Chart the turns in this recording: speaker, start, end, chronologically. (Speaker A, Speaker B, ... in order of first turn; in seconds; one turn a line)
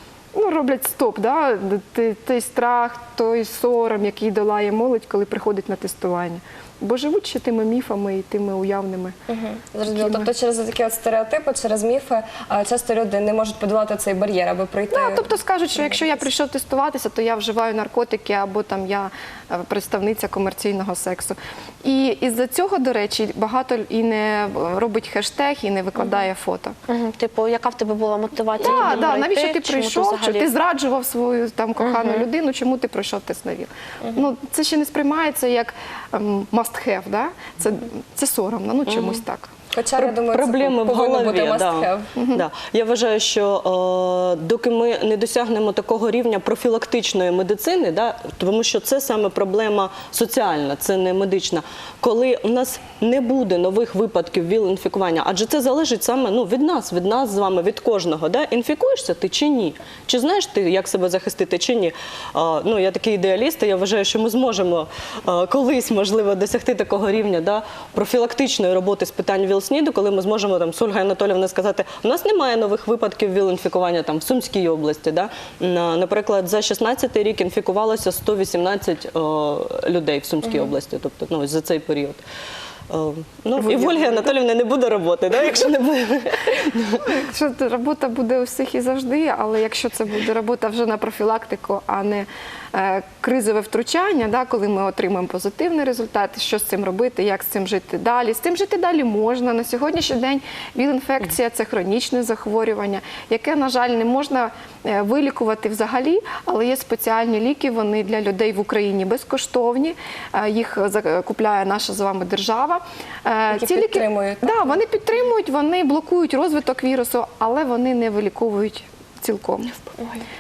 Speaker A: 0.3-9.2
Speaker B: 9.3-15.3
Speaker A: 9.9-10.3
Speaker A: 14.9-26.8
Speaker C: 26.9-30.5
Speaker A: 28.6-39.5
Speaker D: 38.9-39.2
Speaker B: 39.7-42.1
Speaker D: 40.0-82.2
Speaker A: 42.1-42.5
Speaker D: 82.9-87.1
Speaker A: 83.6-84.3
Speaker A: 87.1-119.8
Speaker B: 113.5-114.8